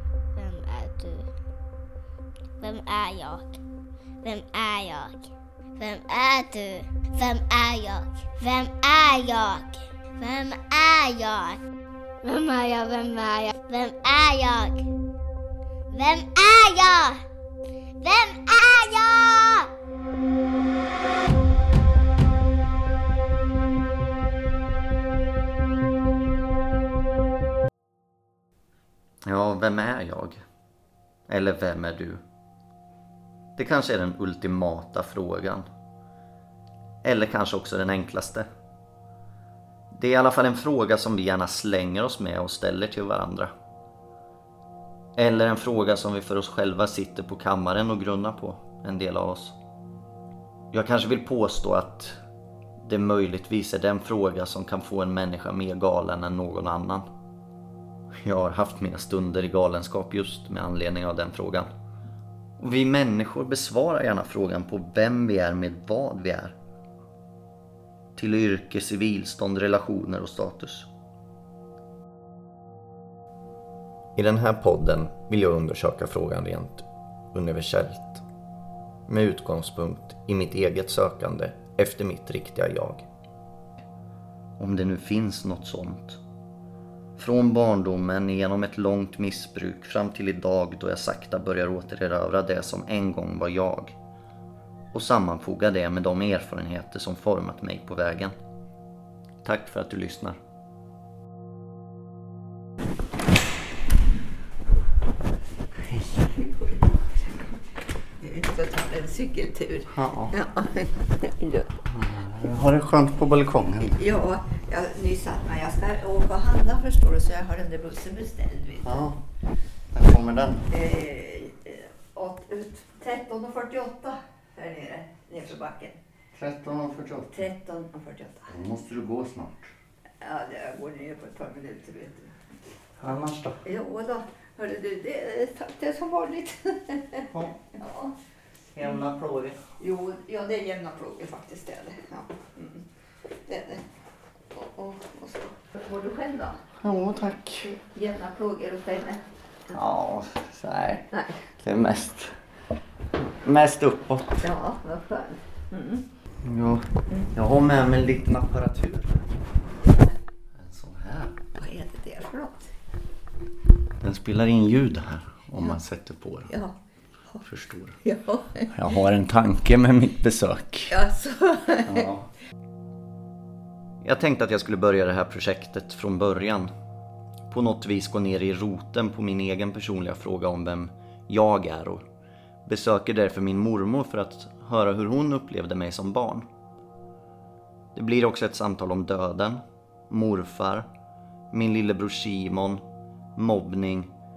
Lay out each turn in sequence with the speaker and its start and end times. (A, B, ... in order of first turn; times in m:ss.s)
0:00.4-0:01.3 A
0:02.6-0:03.6 A
0:04.2-0:11.6 A
0:12.2-0:14.8 A
0:15.9-0:17.2 A
0:18.0-0:19.7 A
0:29.2-0:30.4 B
0:31.3-0:32.2 B
0:33.6-0:35.7 B
0:37.0-0:38.5 B
0:39.9-0:43.5 B
0:45.2-0:49.6 B
0:50.7-0:52.2 B
0:52.8-0:57.1 B
0:58.2-1:01.7 B
1:02.6-1:06.6 B
1:08.2-1:10.9 B
1:14.2-1:18.2 B
1:19.1-1:23.1 B
1:24.6-1:26.2 B
1:27.2-1:34.0 B
1:34.9-1:38.4 B
1:39.4-1:40.4 B
1:46.4-1:46.8 C
1:48.2-1:51.8 C
1:49.9-1:50.3 B
1:51.9-1:54.0 B
1:54.0-1:59.0 C
1:58.8-1:59.2 B
1:59.9-2:00.7 B
2:00.7-2:06.0 C
2:06.3-2:07.4 B
2:07.3-2:08.5 C
2:08.5-2:09.7 B
2:10.2-2:12.4 C
2:13.0-2:13.6 B
2:13.6-2:18.2 C
2:17.3-2:17.6 B
2:18.8-2:19.6 B
2:19.8-2:22.9 C
2:23.5-2:23.9 C
2:24.5-2:26.7 C
2:26.8-2:27.8 B
2:27.6-2:29.3 C
2:29.7-2:32.4 B
2:31.1-2:31.4 C
2:33.4-2:34.5 B
2:34.4-2:36.0 C
2:36.4-2:39.2 B
2:40.6-2:41.4 B
2:41.6-2:42.7 C
2:44.0-2:46.5 B
2:46.5-2:46.8 C
2:47.4-2:48.0 B
2:48.0-2:48.7 C
2:48.7-2:50.9 B
2:50.9-2:52.1 C
2:51.9-2:52.3 B
2:54.0-2:56.7 B
2:57.5-3:02.0 B
3:02.6-3:06.5 B
3:07.9-3:10.9 B
3:11.5-3:12.8 B
3:13.4-3:14.1 B